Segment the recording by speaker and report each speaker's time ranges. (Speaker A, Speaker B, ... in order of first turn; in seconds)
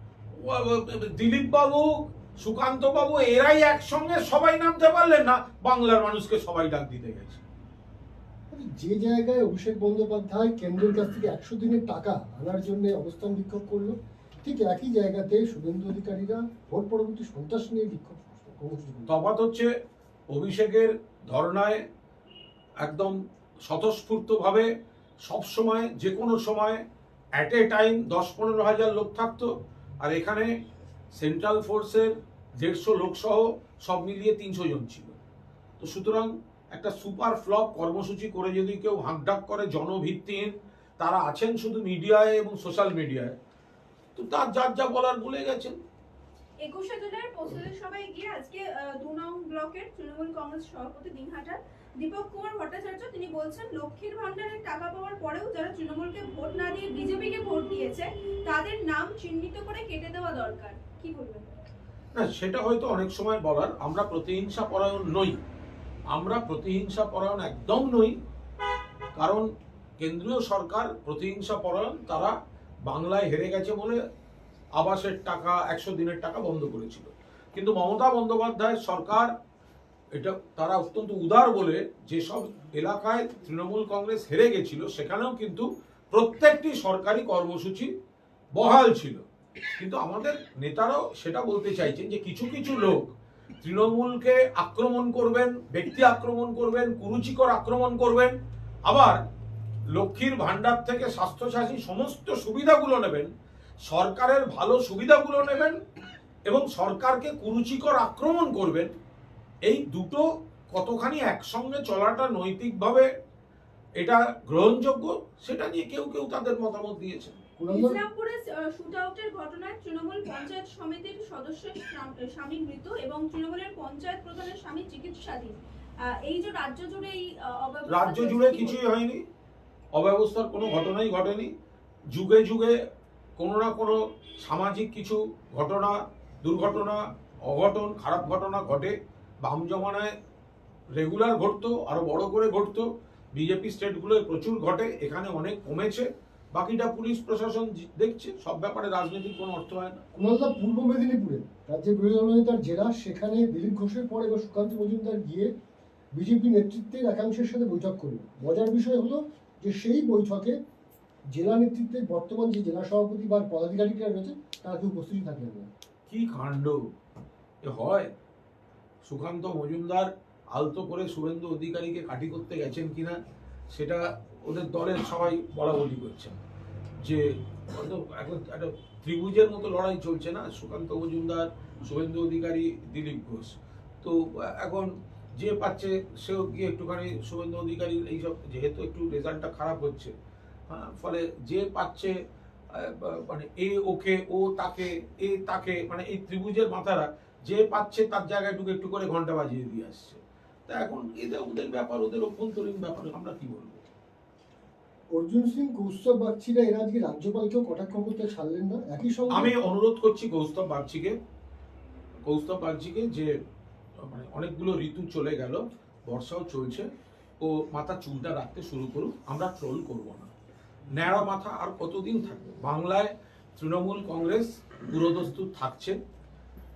Speaker A: 0.3-7.4, 19.1-19.7, 20.3-21.9, 22.8-24.7, 25.2-26.8, 27.4-30.5, 31.1-35.2, 35.8-43.4, 44.1-45.8, 62.1-65.4, 66.1-68.2, 69.1-74.0, 74.7-79.3, 80.1-87.9, 88.5-89.2, 89.8-99.2, 99.9-103.3, 103.8-105.8, 106.5-108.9, 109.7-113.1, 114.0-117.4, 127.9-129.2, 129.9-131.5, 132.1-132.8, 133.4-140.1, 140.9-150.0, 166.1-166.9, 167.6-168.1, 169.0-173.2, 173.7-176.4, 177.0-190.1, 190.7-203.8, 209.3-211.2, 212.2-213.3, 214.0-216.9, 217.4-220.3, 220.9-226.0
Speaker B: 8.5-19.1, 117.6-118.0, 150.1-155.5, 156.1-160.6, 161.3-165.7, 205.1-209.5
Speaker C: 46.6-61.5, 117.7-128.8